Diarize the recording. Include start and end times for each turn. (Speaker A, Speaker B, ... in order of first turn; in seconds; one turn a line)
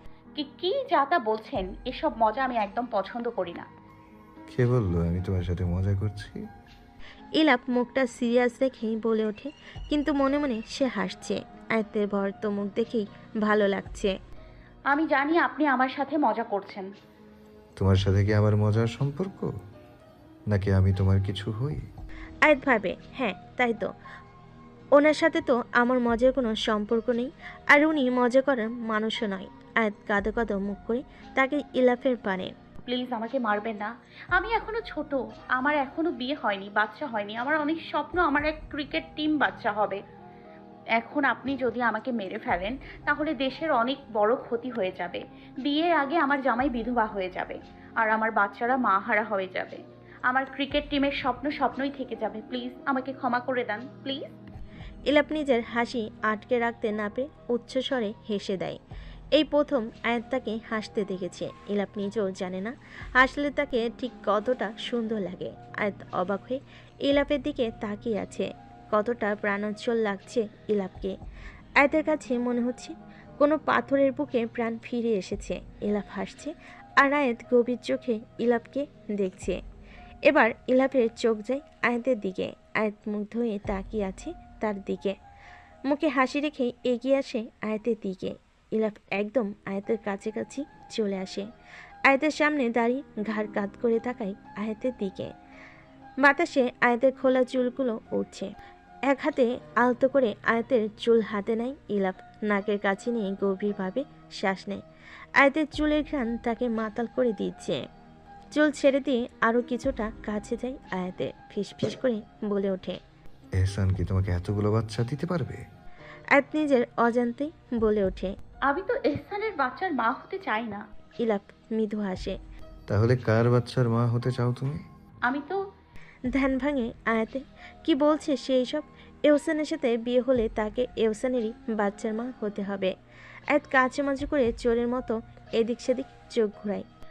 Speaker A: 0.4-3.7
Speaker B: 4.5-6.4
Speaker C: 7.4-14.1
Speaker A: 14.9-16.9
Speaker B: 17.8-19.5
Speaker B: 20.5-21.9
Speaker C: 22.4-23.9
Speaker C: 25.0-32.5
Speaker A: 32.9-40.0
Speaker A: 41.0-54.4
Speaker C: 55.1-58.8
Speaker C: 59.4-71.1
Speaker C: 71.8-79.6
Speaker C: 80.3-85.2
Speaker C: 85.9-91.5
Speaker C: 92.1-95.3
Speaker C: 96.2-98.5
Speaker C: 99.1-104.8
Speaker C: 105.4-107.8
Speaker C: 108.6-113.0
Speaker B: 113.6-115.6
Speaker C: 116.3-118.3
Speaker A: 118.7-120.8
Speaker C: 121.2-122.4
Speaker B: 122.9-124.8
Speaker A: 125.3-125.6
Speaker C: 126.3-132.9
Speaker C: 133.5-136.9